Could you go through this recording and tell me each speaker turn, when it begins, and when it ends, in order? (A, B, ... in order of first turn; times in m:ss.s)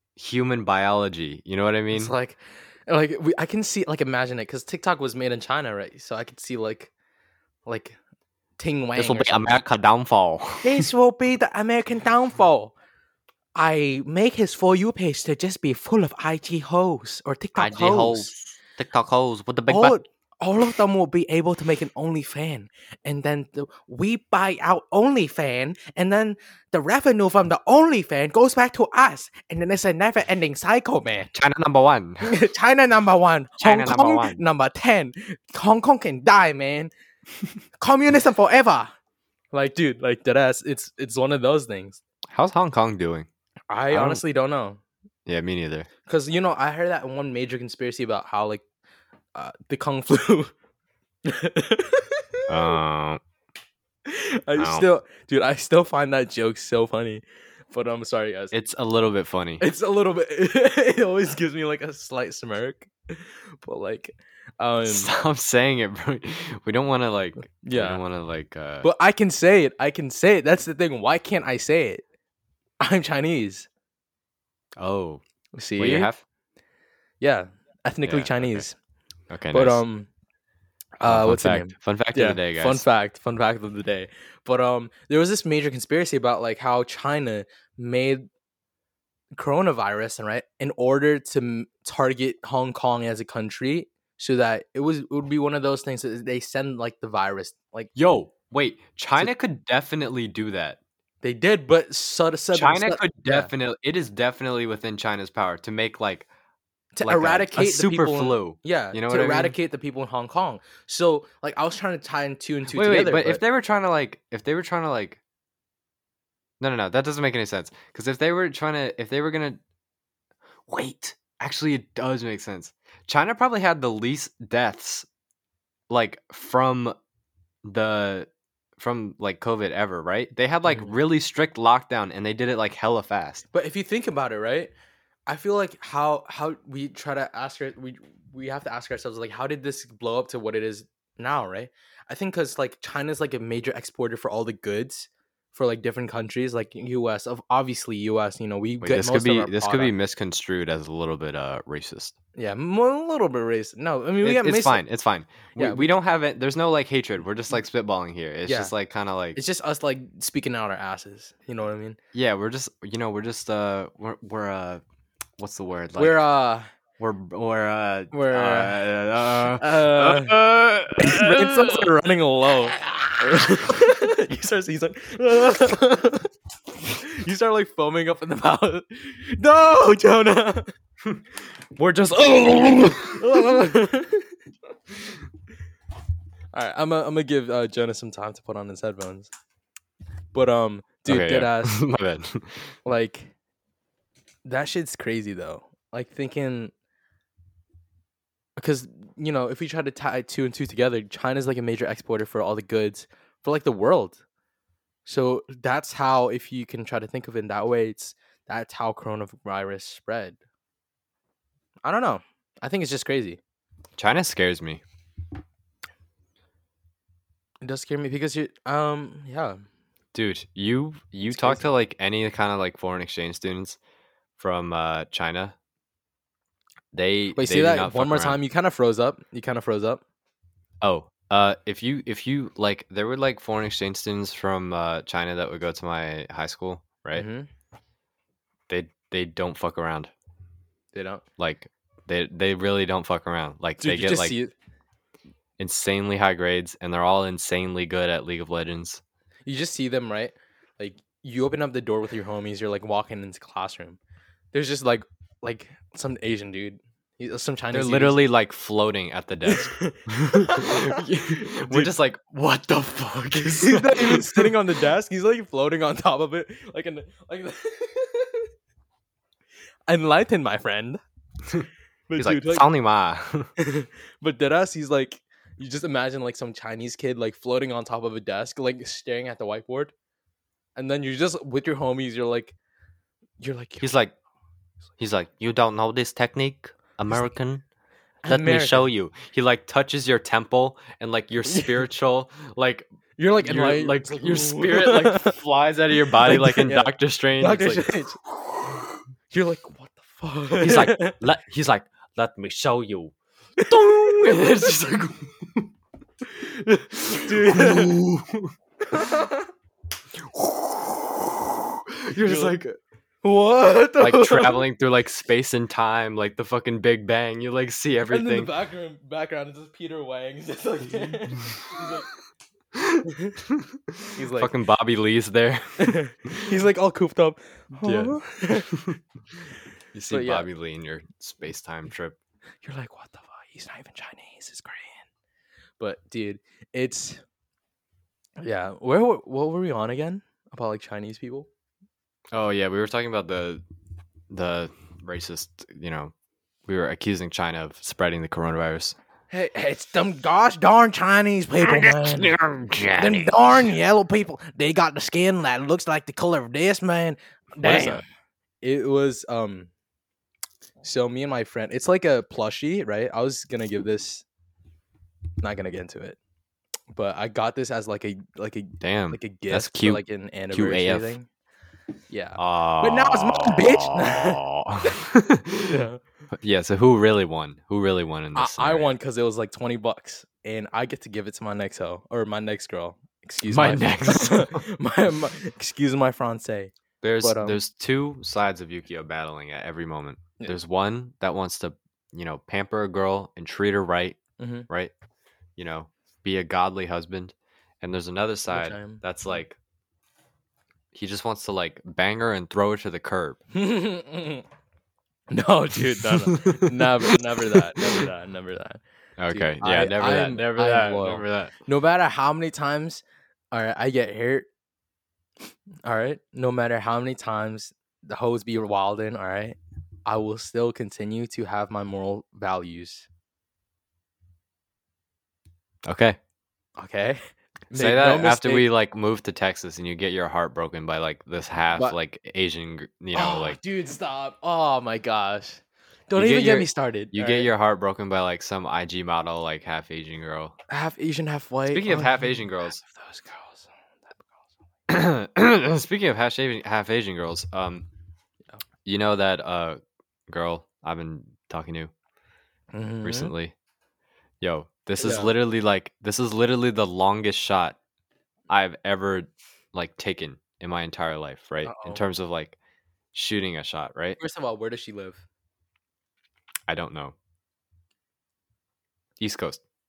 0:00.2-0:02.1 A
0:01.9-0:06.9 B
0:07.7-0:08.0 B
0:08.6-0:09.5 B
0:09.0-0:10.9 A
0:09.0-0:10.0 C
0:10.6-0:12.7 B
0:13.6-0:18.3 B
0:17.6-0:20.0 C
0:19.7-0:31.3 B
0:31.3-0:32.4 A
0:32.2-0:36.9 B
0:33.6-0:34.4 A
0:37.8-0:38.9 B
0:39.5-0:42.0 B
0:42.3-0:43.3 A
0:43.7-0:44.8 B
0:43.9-0:44.2 A
0:45.3-0:45.9 A
0:46.1-0:48.6 B
0:49.4-0:50.5 B
0:51.2-0:52.5 B
0:52.5-0:53.2 A
0:54.1-0:58.6 B
0:54.6-0:54.9 A
0:58.5-0:59.6 A
0:59.6-1:05.1 B
1:04.9-1:08.9 A
1:07.6-1:08.0 B
1:08.8-1:12.0 B
1:12.8-1:13.7 B
1:14.8-1:15.2 A
1:15.6-1:16.1 B
1:15.8-1:16.2 A
1:17.2-1:18.8 B
1:18.0-1:18.7 A
1:19.3-1:19.8 A
1:19.5-1:20.1 B
1:21.0-1:28.3 B
1:21.0-1:22.9 A
1:29.4-1:37.9 B
1:38.0-1:40.8 A
1:41.2-1:43.5 B
1:42.5-1:46.3 A
1:47.0-1:53.4 B
1:47.0-1:49.6 A
1:52.7-1:55.2 A
1:56.6-1:59.6 A
2:00.7-2:05.1 A
2:05.9-2:07.0 A
2:07.6-2:13.4 A
2:10.7-2:10.9 B
2:13.5-2:14.7 B
2:15.3-2:29.9 B
2:28.8-2:32.2 A
2:32.4-2:34.8 B
2:34.2-2:39.4 A
2:35.6-2:35.9 B
2:38.5-2:38.7 B
2:39.4-2:42.0 B
2:42.1-2:44.8 A
2:45.4-2:46.2 A
2:46.0-2:46.7 B
2:47.0-2:51.9 A
2:48.1-2:50.4 B
2:51.0-2:56.3 B
2:52.8-2:53.5 A
2:56.9-3:00.7 B
3:01.8-3:02.2 A
3:02.0-3:04.3 B
3:06.5-3:09.3 B
3:10.3-3:11.8 B
3:11.1-3:12.7 A
3:12.8-3:13.3 B
3:14.4-3:16.7 B
3:18.6-3:24.2 B
3:25.0-3:30.4 B
3:31.8-3:33.4 B
3:34.0-3:34.8 A
3:37.6-3:39.6 B
3:40.1-3:43.8 A
3:41.3-3:41.6 B
3:44.4-3:45.6 A
3:46.9-3:48.4 A
3:47.4-3:50.0 B
3:50.8-3:57.3 A
3:57.2-3:57.5 B
3:58.7-4:00.1 A
4:00.9-4:01.2 B
4:01.4-4:04.3 A
4:03.8-4:04.5 B
4:05.6-4:09.0 A
4:09.5-4:14.0 B
4:14.5-4:18.2 B
4:17.7-4:24.5 A
4:19.5-4:21.9 B
4:23.4-4:28.5 B
4:29.9-4:31.0 B
4:32.1-4:32.7 B
4:32.2-4:33.5 A
4:33.6-4:39.9 B
4:40.8-4:42.6 B
4:43.4-4:43.9 B
4:43.8-4:44.1 A
4:45.0-4:47.5 A
4:45.5-4:47.6 C
4:48.2-4:48.9 B
4:48.3-4:48.7 C
4:48.3-4:52.9 A
4:53.2-4:55.4 B
4:53.4-4:57.9 A
4:56.2-4:58.8 B
4:59.3-5:01.2 B
5:00.6-5:05.7 A
5:00.7-5:03.1 C
5:03.6-5:04.4 B
5:06.9-5:08.5 A
5:07.1-5:08.0 B
5:08.9-5:09.5 B
5:10.2-5:12.8 A
5:12.1-5:12.6 B
5:13.2-5:14.7 B
5:14.0-5:18.5 A
5:18.1-5:22.1 B
5:22.7-5:26.6 A
5:23.1-5:23.4 B
5:24.1-5:24.5 B
5:25.8-5:28.8 B
5:27.8-5:29.0 A
5:29.9-5:32.2 A
5:30.1-5:30.5 B
5:32.6-5:35.0 B
5:35.8-5:37.2 B
5:38.4-5:41.5 B
5:42.3-5:43.6 A
5:44.3-5:46.1 A
5:46.7-5:49.0 A
5:49.3-5:52.4 B
5:51.9-5:53.3 C
5:52.9-5:58.0 B
5:57.6-5:58.0 A
5:58.6-5:59.7 B
6:00.8-6:04.2 B
6:05.4-6:06.2 B
6:06.9-6:11.3 B
6:08.8-6:11.2 A
6:12.1-6:15.0 B
6:12.4-6:15.8 A
6:15.7-6:16.0 B
6:16.4-6:18.9 A
6:18.4-6:27.6 B
6:23.5-6:24.7 A
6:27.0-6:34.2 A
6:34.4-6:34.7 B
6:35.6-6:39.6 A
6:38.5-6:39.0 B
6:40.9-6:43.4 A
6:43.5-6:44.4 B
6:45.3-6:54.5 B
6:46.0-6:48.0 A
6:49.2-6:51.6 A
6:55.8-7:03.1 B
7:05.8-7:06.2 A
7:06.8-7:08.7 B
7:07.7-7:13.6 A
7:13.1-7:17.5 B
7:16.2-7:20.6 A
7:20.7-7:24.2 B
7:21.7-7:22.8 A
7:24.9-7:27.9 A
7:28.8-7:31.9 A
7:32.7-7:33.3 B
7:33.0-7:33.5 A
7:34.4-7:37.8 A
7:35.0-7:35.3 B
7:38.5-7:42.6 A
7:41.6-7:42.0 B
7:43.1-7:44.2 A
7:44.2-7:45.2 B
7:46.7-7:47.2 A
7:49.2-7:49.6 A